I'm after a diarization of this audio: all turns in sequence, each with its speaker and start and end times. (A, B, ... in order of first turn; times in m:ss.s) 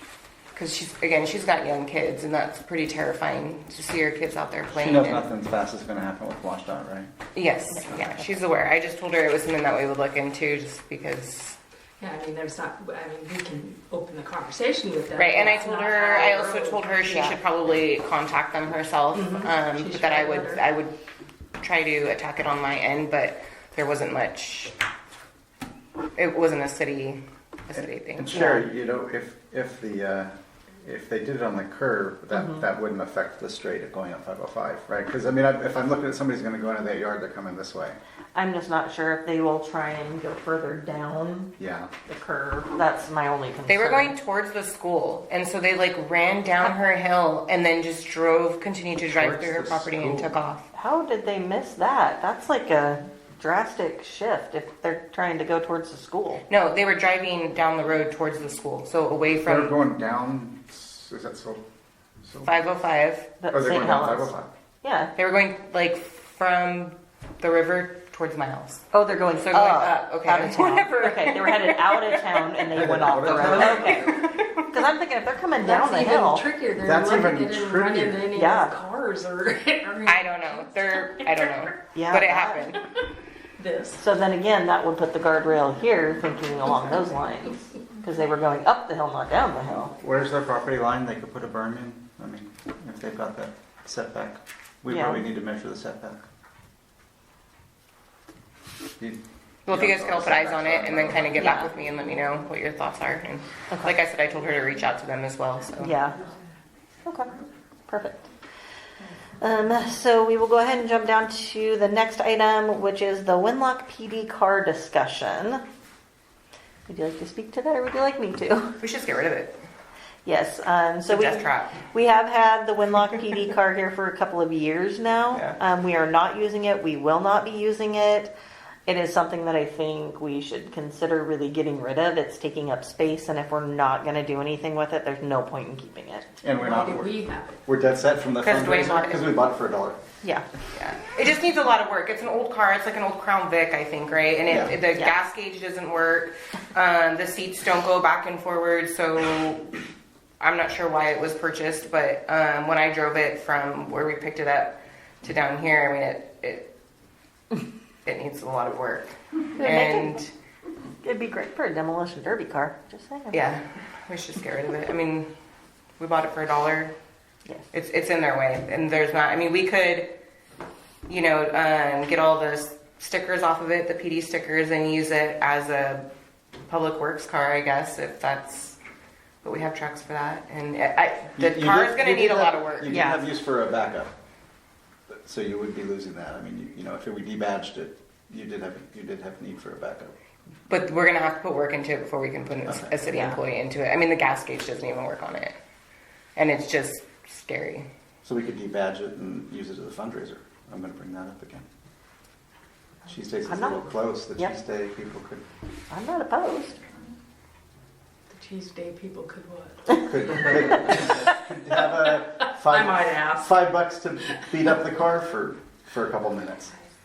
0:00.5-0:05.3 A
0:04.7-0:07.1 B
0:07.3-0:11.6 A
0:07.8-0:08.2 C
0:12.0-0:17.4 D
0:15.1-0:20.9 A
0:19.1-0:20.6 D
0:21.6-0:24.7 A
0:26.2-0:28.5 A
0:27.8-0:38.0 B
0:28.3-0:28.6 C
0:38.3-0:41.5 C
0:41.6-0:41.9 B
0:42.0-0:44.1 C
0:43.7-0:50.7 A
0:49.1-0:50.4 B
0:50.7-0:56.4 C
0:56.5-0:59.8 A
0:59.4-1:01.6 B
1:02.2-1:02.5 B
1:02.4-1:03.3 A
1:03.4-1:05.1 C
1:03.5-1:04.5 B
1:05.2-1:08.8 A
1:08.9-1:16.4 C
1:09.4-1:12.4 A
1:12.7-1:14.1 B
1:13.4-1:14.2 D
1:13.9-1:14.6 A
1:15.6-1:21.8 D
1:16.8-1:18.3 B
1:18.3-1:18.8 C
1:20.0-1:22.8 A
1:21.9-1:22.7 C
1:23.6-1:24.0 D
1:24.0-1:30.0 C
1:30.0-1:36.2 B
1:34.9-1:35.2 C
1:39.0-1:41.4 B
1:39.6-1:45.9 A
1:41.4-1:41.7 C
1:45.8-1:46.2 C
1:47.9-1:48.3 C
1:49.4-1:55.6 C
1:56.9-1:58.8 C
1:58.8-1:59.6 A
2:00.2-2:08.3 C
2:01.1-2:01.8 A
2:08.8-2:16.4 C
2:16.4-2:17.1 B
2:16.6-2:17.6 D
2:17.6-2:20.0 B
2:18.4-2:19.4 A
2:20.8-2:29.7 A
2:24.5-2:24.8 B
2:30.4-2:36.7 A
2:38.0-2:40.3 A
2:39.6-2:40.2 C
2:41.0-2:43.5 C
2:43.3-2:45.3 A
2:46.0-2:46.9 A
2:47.7-2:50.1 A
2:51.1-2:56.1 A
2:56.7-2:58.8 A
2:59.4-3:03.3 A
3:01.4-3:04.1 B
3:02.9-3:03.2 C
3:05.1-3:10.1 B
3:10.7-3:15.6 A
3:12.6-3:13.0 B
3:13.1-3:13.4 C
3:16.4-3:17.9 A
3:18.2-3:21.6 B
3:23.1-3:25.4 B
3:23.4-3:24.6 C
3:25.9-3:26.8 C
3:28.3-3:31.0 D
3:29.9-3:36.7 B
3:32.6-3:33.6 D